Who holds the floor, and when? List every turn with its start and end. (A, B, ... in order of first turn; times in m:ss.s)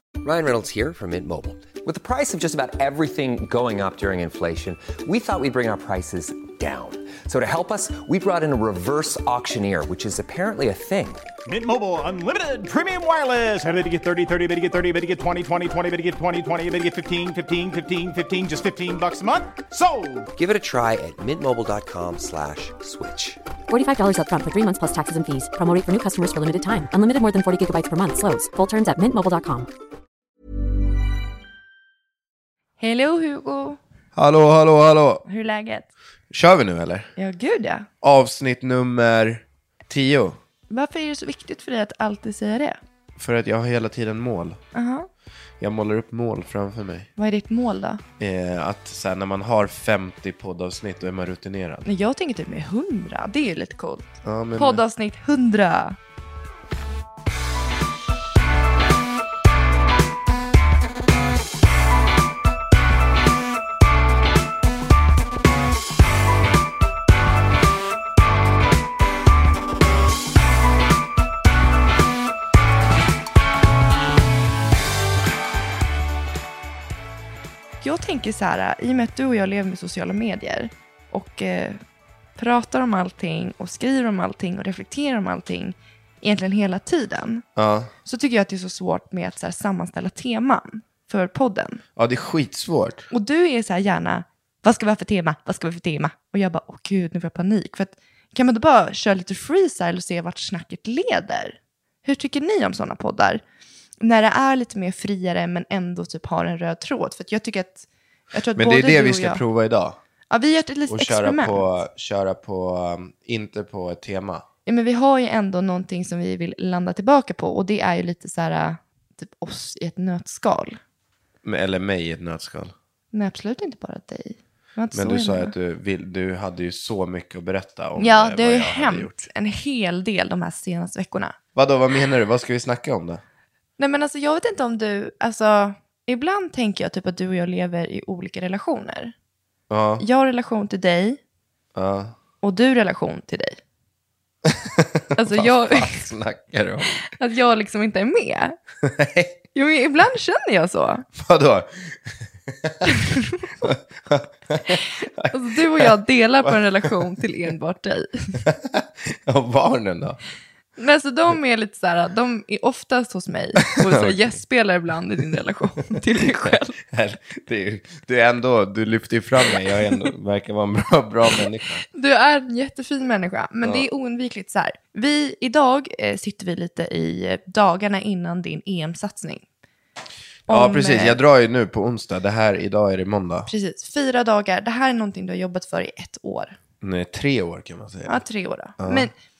0:00.2-0:11.2 A
0:11.5-0:20.2 B
0:20.3-0:23.4 A
0:23.7-0:29.7 C
0:32.8-0:33.8 D
0:34.2-0:35.2 E
0:35.2-0:35.9 D
0:36.3-0:37.1 E
0:37.2-0:37.9 D
0:38.0-0:40.4 E
0:40.7-0:42.8 D
0:43.2-0:44.6 E
0:44.7-0:45.1 D
0:45.6-0:47.1 E
0:47.2-0:48.0 D
0:48.2-0:51.9 E
0:51.8-0:56.0 D
0:54.2-0:54.8 E
1:17.8-1:21.8 D
1:22.4-1:27.4 D
1:27.6-1:27.9 E
1:28.0-1:31.8 D
1:32.0-1:33.1 E
1:33.1-1:43.4 D
1:44.0-1:49.4 D
1:48.6-1:50.0 E
1:50.3-1:51.6 D
1:50.9-1:54.4 E
1:54.6-2:00.8 D
2:01.4-2:02.7 E
2:03.1-2:05.5 D
2:04.9-2:09.3 E
2:08.0-2:11.4 D
2:11.6-2:13.2 E
2:13.8-2:19.1 D
2:19.7-2:20.0 E
2:20.0-2:21.2 D
2:21.8-2:22.2 E
2:22.4-2:23.6 D
2:24.4-2:27.0 E
2:25.2-2:26.0 D
2:27.1-2:28.6 D
2:28.8-2:29.4 E
2:29.6-2:31.0 D
2:31.1-2:32.9 E
2:32.9-2:33.7 D
2:33.6-2:35.9 E
2:35.3-2:38.4 D
2:36.4-2:36.9 E
2:38.4-2:40.2 E
2:40.8-2:46.8 D
2:43.8-2:44.4 E
2:46.2-2:51.8 E
2:51.9-2:59.5 D
2:53.6-2:53.9 E
3:00.5-3:01.2 D
3:00.5-3:03.5 E
3:03.5-3:06.6 D
3:06.8-3:08.2 E
3:08.1-3:09.1 D
3:08.8-3:09.1 E